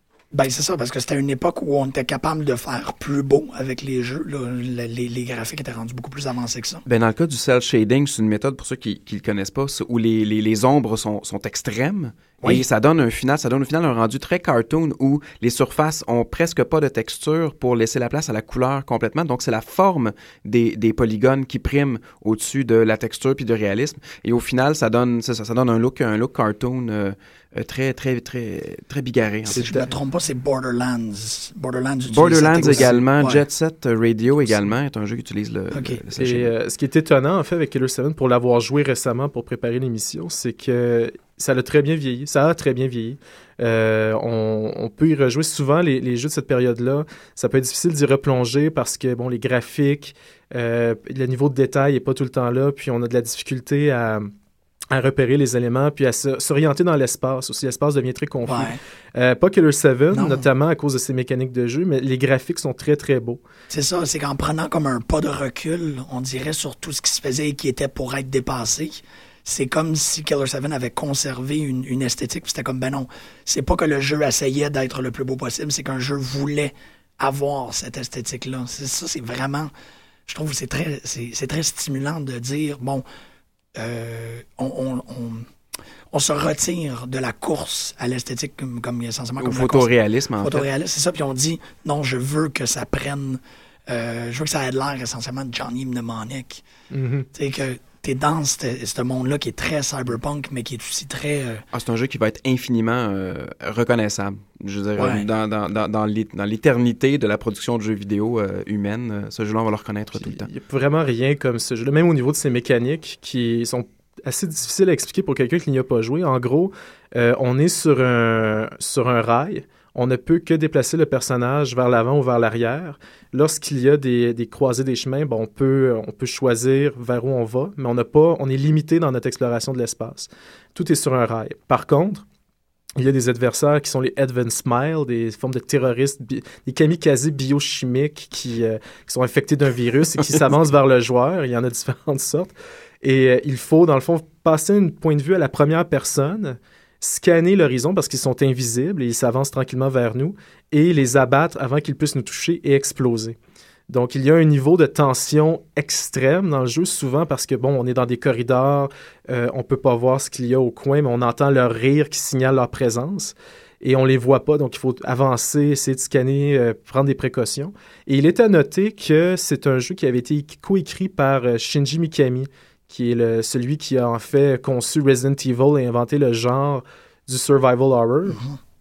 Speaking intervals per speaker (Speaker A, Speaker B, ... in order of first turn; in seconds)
Speaker A: 0.3-6.8, 29.5-33.4, 35.7-36.0, 58.4-58.8, 60.1-60.4, 63.7-79.7, 80.3-83.0, 83.8-85.5, 86.1-96.6, 97.3-101.6, 105.0-105.3
Speaker B: 6.8-29.6, 32.1-36.5, 89.4-90.7, 101.7-110.5
Speaker C: 29.5-29.9, 32.6-33.0, 36.2-54.3, 54.9-63.4, 96.9-97.3, 110.1-132.2, 133.0-153.3, 153.9-178.4